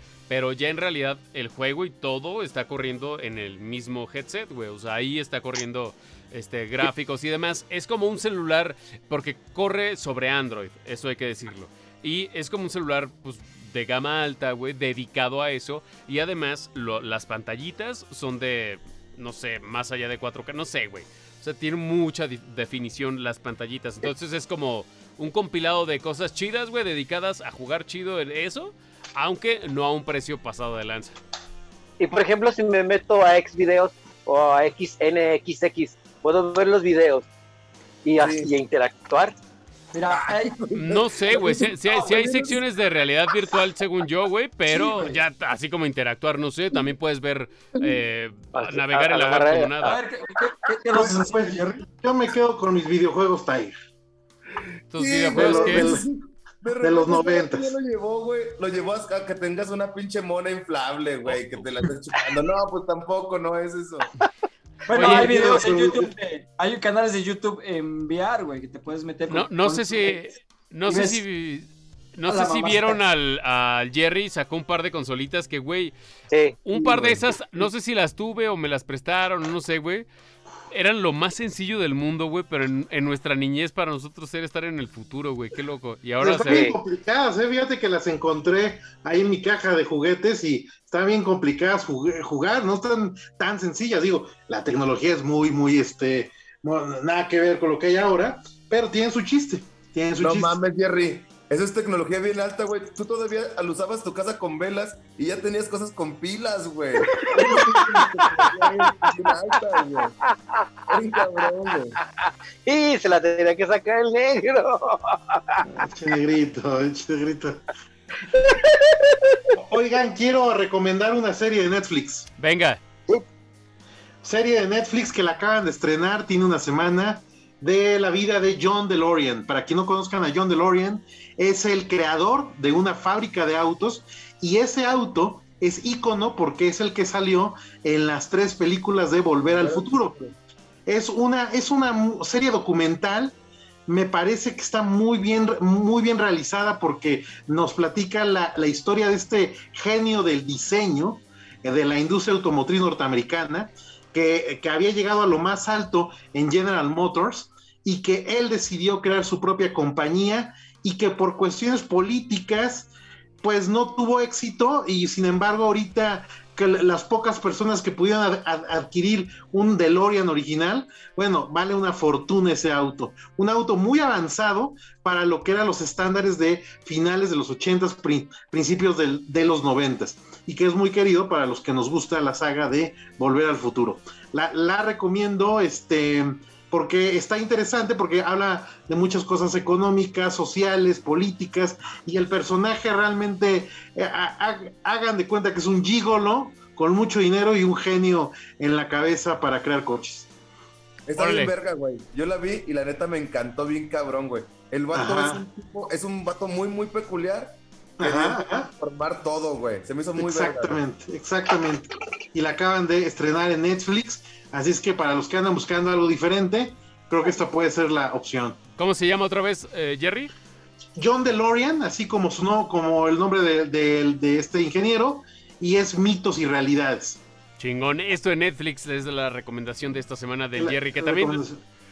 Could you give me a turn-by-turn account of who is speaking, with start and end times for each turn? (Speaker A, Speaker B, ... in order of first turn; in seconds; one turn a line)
Speaker A: 0.3-31.2
Speaker B: 32.0-37.3
Speaker B: 38.0-39.4
Speaker C: 38.2-38.5
Speaker D: 39.9-40.7
Speaker C: 40.1-42.6
Speaker A: 40.7-50.0
Speaker D: 44.7-45.2
Speaker B: 48.5-50.0
Speaker D: 49.8-51.9
Speaker E: 50.9-53.7
Speaker A: 54.9-56.0
Speaker C: 55.0-64.1
Speaker E: 55.3-56.0
Speaker E: 56.8-57.7
Speaker A: 61.2-61.6
Speaker D: 64.9-70.4
Speaker A: 64.9-65.3
Speaker E: 64.9-66.1
Speaker A: 69.3-75.9
Speaker D: 70.9-71.2
Speaker D: 72.3-73.0
Speaker B: 76.3-76.6
Speaker A: 76.7-80.1
Speaker C: 76.7-77.2
Speaker A: 80.7-86.7
Speaker E: 86.2-100.6
Speaker B: 86.4-86.8
Speaker C: 100.2-110.2
Speaker B: 107.1-108.7
Speaker B: 110.5-111.5
Speaker C: 110.9-112.0
Speaker B: 112.2-115.8
Speaker E: 115.8-117.6
Speaker B: 118.3-119.5
Speaker E: 119.5-122.3
Speaker A: 122.4-122.8
Speaker E: 124.2-140.2
Speaker C: 139.5-140.4
Speaker E: 140.9-143.3
Speaker E: 143.9-162.9
Speaker E: 163.4-200.3
Speaker C: 201.1-210.8
Speaker A: 201.2-201.5
Speaker E: 204.9-205.4
Speaker E: 208.0-208.7
Speaker E: 210.2-218.6
Speaker A: 218.8-220.3
Speaker E: 221.0-227.2
Speaker A: 227.6-231.4
Speaker E: 230.6-231.6